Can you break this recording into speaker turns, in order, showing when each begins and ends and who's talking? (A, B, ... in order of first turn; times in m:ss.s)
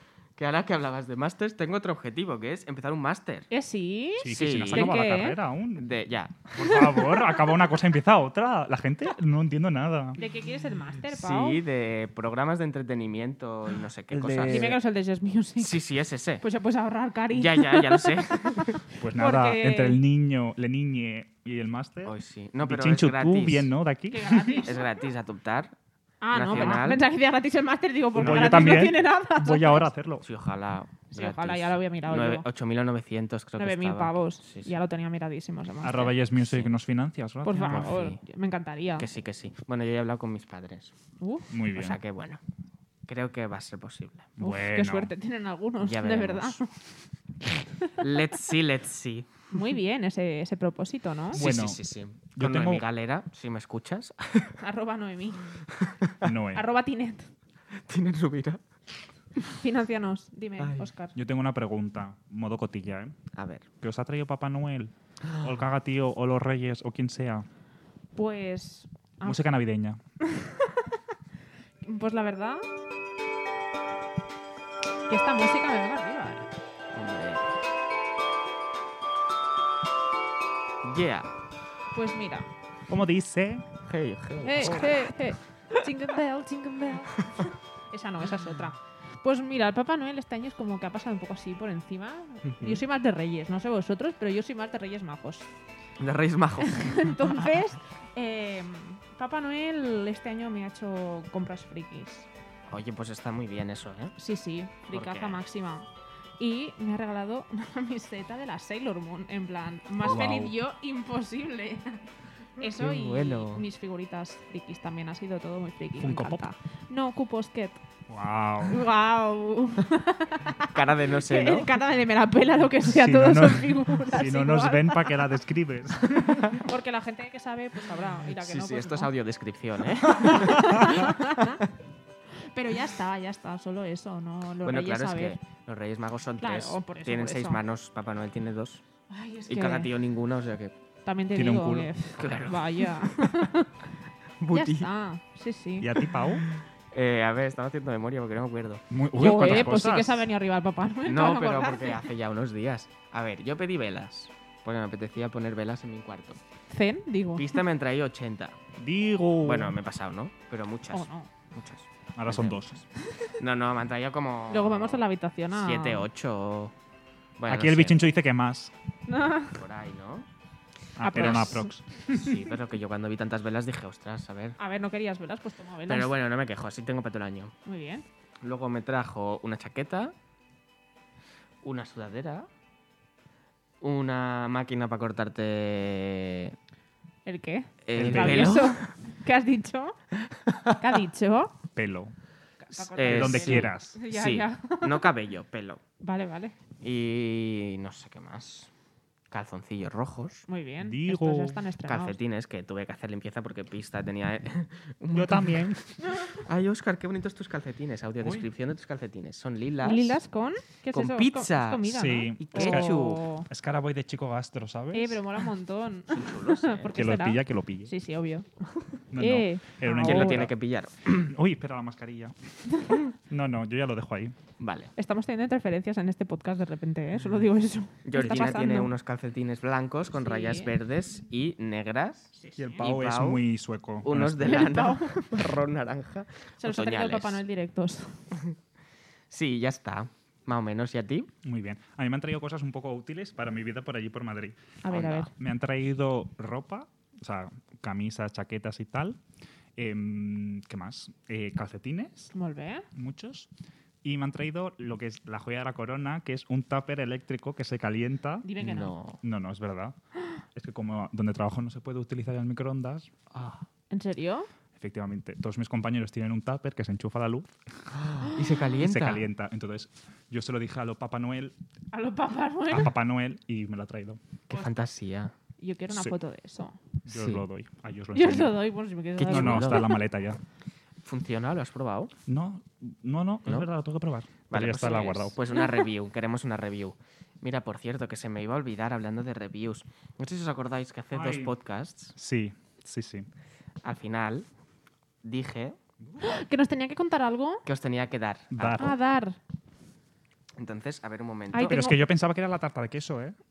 0:00.4-0:03.5 A
0:03.5-0:05.4 B
0:04.2-0:05.9 C
0:04.2-0:04.9 A
0:05.8-0:06.4 A
0:06.5-0:10.2 C
0:06.6-0:07.0 B
0:10.2-0:11.6 B
0:11.1-0:14.7 A
0:14.1-0:14.8 C
0:14.4-0:15.8 B
0:15.6-0:16.4 A
0:16.4-0:20.0 B
0:17.3-0:18.8 A
0:19.0-0:24.6 C
0:22.0-0:23.7 A
0:24.1-0:24.9 B
0:24.6-0:25.7 A
0:26.2-0:29.9 B
0:26.3-0:27.0 A
0:26.5-0:26.8 C
0:28.1-0:30.2 C
0:28.2-0:28.6 A
0:30.2-0:34.7 A
0:31.1-0:32.4 B
0:33.6-0:36.1 B
0:35.8-0:37.9 C
0:36.3-0:36.7 A
0:37.4-0:39.1 B
0:37.6-0:38.2 A
0:39.0-0:40.9 A
0:41.2-0:41.5 B
0:41.5-0:42.0 C
0:41.7-0:42.4 A
0:43.1-0:44.4 A
0:44.4-0:45.1 C
0:44.4-0:46.7 B
0:45.8-0:46.6 A
0:48.0-0:49.5 A
0:49.5-0:51.4 B
0:51.3-0:54.5 A
0:51.3-0:51.8 C
0:52.3-0:52.8 C
0:54.6-0:55.5 B
0:55.8-0:56.1 A
0:56.2-0:56.6 C
0:56.5-0:57.3 B
0:57.8-0:58.6 A
0:59.4-1:01.1 B
1:00.6-1:00.9 A
1:01.1-1:03.2 C
1:03.3-1:03.6 A
1:03.8-1:07.5 C
1:05.2-1:05.5 A
1:08.2-1:09.4 B
1:09.2-1:10.0 C
1:10.2-1:10.8 B
1:11.8-1:12.6 B
1:15.1-1:16.5 B
1:16.9-1:17.5 A
1:20.8-1:21.3 A
1:21.9-1:22.5 B
1:22.9-1:23.6 C
1:23.8-1:25.1 A
1:24.4-1:35.5 B
1:32.5-1:32.8 A
1:36.0-1:36.9 A
1:36.6-1:42.3 B
1:42.7-1:44.1 A
1:44.2-1:45.8 B
1:44.9-1:45.4 A
1:46.4-1:52.1 B
1:50.0-1:50.5 C
1:52.6-1:57.8 B
1:52.6-1:53.6 A
1:56.0-1:56.4 C
1:58.1-1:58.8 C
1:58.7-2:05.1 B
2:00.6-2:01.7 A
2:02.8-2:06.6 C
2:06.5-2:09.1 B
2:08.4-2:11.6 A
2:10.2-2:11.6 B
2:12.5-2:15.4 B
2:14.6-2:18.8 A
2:16.4-2:17.6 B
2:19.1-2:19.9 B
2:19.5-2:20.7 A
2:21.0-2:23.8 B
2:21.3-2:22.4 C
2:22.2-2:23.5 A
2:24.4-2:24.9 A
2:24.5-2:26.0 B
2:25.8-2:26.4 C
2:26.5-2:29.8 A
2:28.9-2:30.3 C
2:29.2-2:32.0 B
2:31.0-2:36.4 A
2:36.7-2:37.6 B
2:37.4-2:38.6 A
2:38.8-2:39.7 C
2:39.4-2:42.8 A
2:40.9-2:41.3 B
2:42.2-2:42.8 C
2:43.4-2:45.0 A
2:44.5-2:46.1 B
2:45.5-2:46.7 A
2:47.4-2:48.0 A
2:47.5-2:48.7 C
2:49.1-2:49.6 B
2:49.5-2:50.3 A
2:51.0-2:51.8 C
2:51.0-2:52.4 B
2:51.1-2:54.6 A
2:54.6-2:56.1 B
2:55.9-2:57.5 A
2:57.6-2:58.0 B
2:58.4-3:00.1 A
3:01.6-3:02.5 A
3:03.8-3:06.6 A
3:07.2-3:10.0 B
3:07.8-3:08.9 A
3:07.9-3:08.6 C
3:10.5-3:10.8 A
3:10.8-3:11.5 B
3:11.7-3:12.1 C
3:12.6-3:15.1 B
3:12.7-3:15.8 A
3:13.0-3:14.0 C
3:16.0-3:16.5 B
3:16.8-3:18.7 A
3:19.3-3:20.5 A
3:20.5-3:22.2 B
3:20.8-3:21.6 C
3:21.8-3:30.2 A
3:25.1-3:25.8 C
3:29.8-3:33.5 B
3:30.9-3:33.2 A
3:31.9-3:35.2 C
3:34.9-3:38.5 B
3:36.1-3:36.9 A
3:36.9-3:37.9 C
3:39.1-3:40.5 C
3:39.1-3:40.4 B
3:40.0-3:41.3 A
3:41.2-3:42.3 C
3:43.2-3:44.4 C
3:44.6-3:44.9 A
3:45.0-3:48.9 B
3:48.0-3:53.4 A
3:50.1-3:50.7 B
3:52.4-3:52.8 B
3:52.6-3:54.7 C
3:54.0-3:57.4 A
3:54.4-3:55.3 B
3:56.6-3:58.2 B
3:59.3-4:01.3 A
4:01.4-4:04.6 C
4:04.8-4:05.3 B
4:04.9-4:05.3 A
4:05.3-4:09.2 C
4:09.8-4:12.3 C
4:12.3-4:12.8 B
4:12.9-4:13.5 C
4:14.0-4:18.5 C
4:18.4-4:18.9 B
4:18.6-4:19.2 A
4:19.2-4:20.0 C
4:20.5-4:23.1 C
4:23.3-4:23.6 A
4:23.9-4:24.5 B
4:24.8-4:27.5 C
4:27.9-4:29.2 A
4:28.8-4:31.5 C
4:31.9-4:32.9 B
4:32.7-4:34.2 C
4:34.5-4:35.3 A
4:35.6-4:36.8 B
4:37.0-4:38.6 C
4:37.1-4:37.4 A
4:38.1-4:40.0 B
4:39.2-4:39.9 A
4:39.3-4:40.4 C
4:41.0-4:42.1 A
4:42.3-4:45.3 C
4:44.5-4:52.1 A
4:45.5-4:45.8 B
4:51.1-4:51.5 C
4:52.1-4:53.3 C
4:53.8-4:54.5 A
4:55.2-4:55.8 A
4:56.0-4:56.4 C
4:56.2-4:57.6 B
4:57.6-4:58.9 A
4:58.5-4:59.0 C
4:58.8-4:59.4 B
5:00.6-5:01.9 A
5:01.5-5:02.0 B
5:01.7-5:03.4 C